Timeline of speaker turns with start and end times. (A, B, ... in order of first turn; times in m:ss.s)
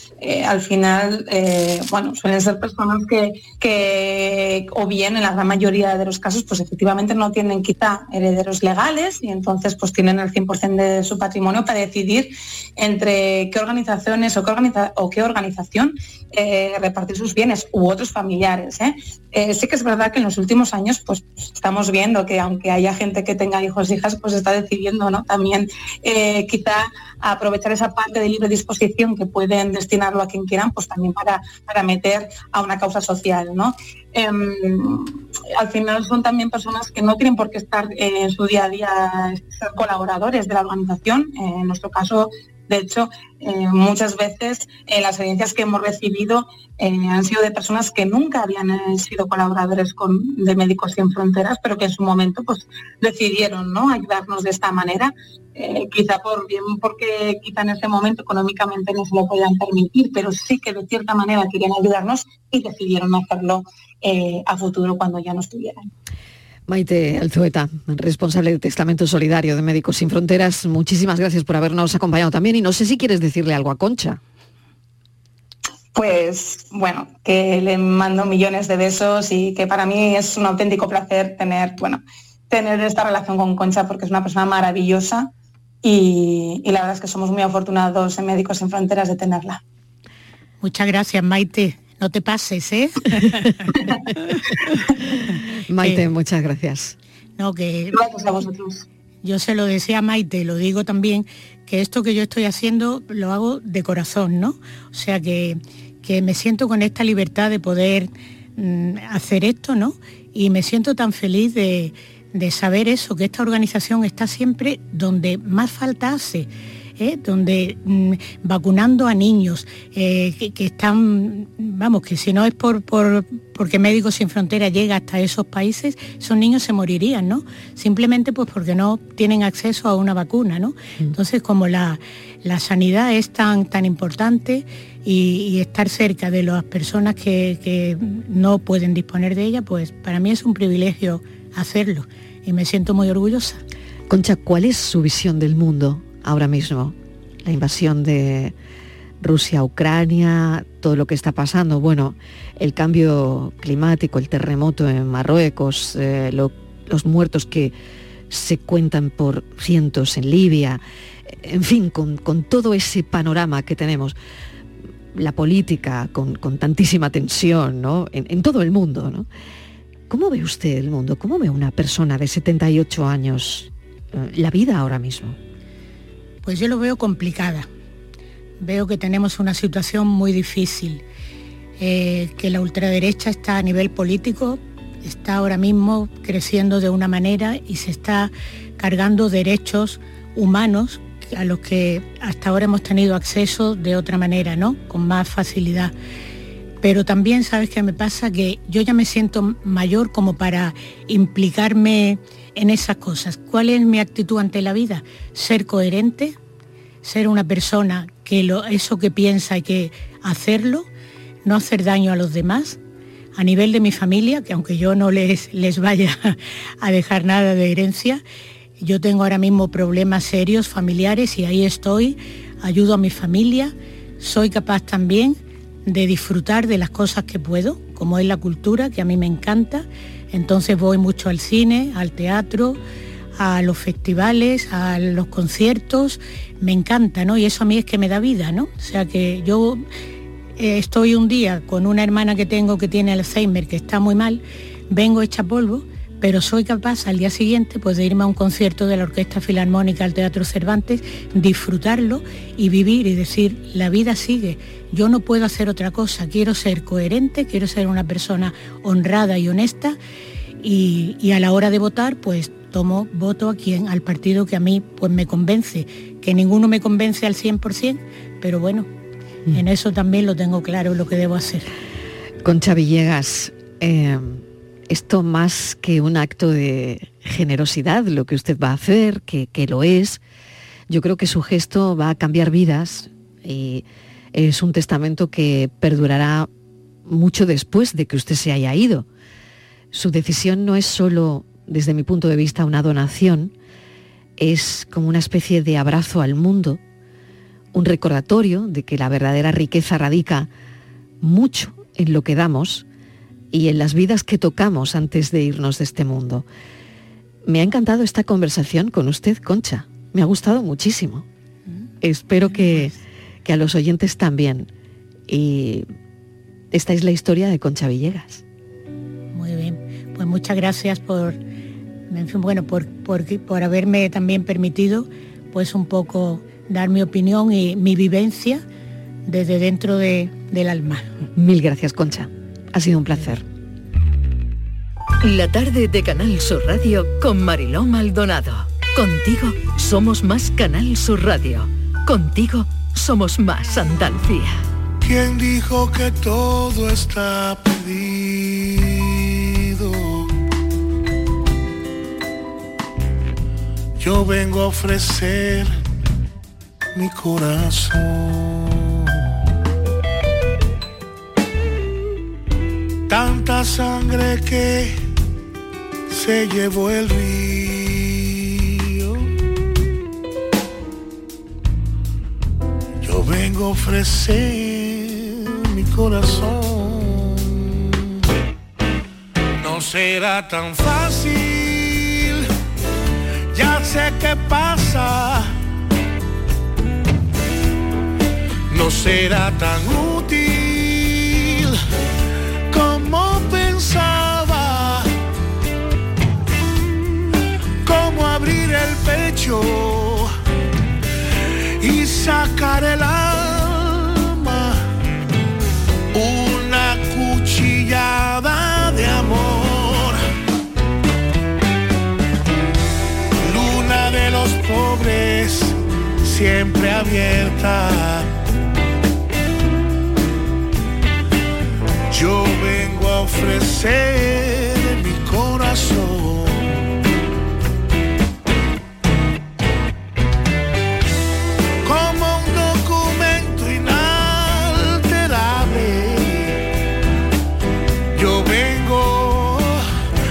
0:00.2-1:05.8 A
1:06.7-1:14.2 B
1:15.9-1:25.3 A
1:25.8-1:29.6 A
1:30.6-1:33.6 C
1:35.7-1:36.9 B
1:35.8-1:36.0 C
1:37.4-1:38.1 C
1:37.9-1:38.8 A
1:39.2-2:23.6 C
2:24.1-2:28.5 B
2:29.2-2:37.8 B
2:38.3-2:44.2 B
2:45.1-2:49.3 B
2:50.1-2:55.4 B
2:56.4-2:57.7 C
2:58.6-3:01.0 C
3:01.8-3:15.9 C
3:16.8-3:26.4 C
3:27.0-3:30.9 C
3:31.4-3:32.8 C
3:33.4-3:38.2 C
3:38.8-3:52.8 C
3:53.4-3:59.8 C
4:00.6-4:20.0 C
4:20.6-4:28.9 C
4:29.5-4:31.7 C
4:32.4-4:40.2 B
4:40.9-4:46.5 B
4:47.0-4:49.0 B
4:49.9-4:53.5 B
4:54.4-4:56.8 B
4:57.7-5:00.5 B
5:01.2-5:02.8 B
5:03.5-5:06.4 B
5:07.4-5:11.2 B
5:12.0-5:14.7 B
5:12.4-5:12.9 C
5:15.3-5:15.9 B
5:16.7-5:18.4 B
5:19.3-5:21.4 C
5:22.1-5:28.6 C
5:29.2-5:31.1 C
5:31.3-5:33.4 B
5:35.2-5:44.6 D
5:45.0-5:50.3 E
5:54.0-5:55.7 E
5:56.9-5:59.1 E
6:03.1-6:05.0 E
6:06.1-6:09.3 E
6:13.0-6:17.9 E
6:19.6-6:22.5 E
6:23.5-6:25.5 E
6:28.7-6:31.8 E
6:32.7-6:35.1 E
6:37.8-6:40.3 E
6:41.8-6:44.9 E
6:46.1-6:50.2 E
6:53.4-6:58.3 E
7:02.1-7:06.9 E
7:11.8-7:16.7 E
7:18.1-7:19.8 E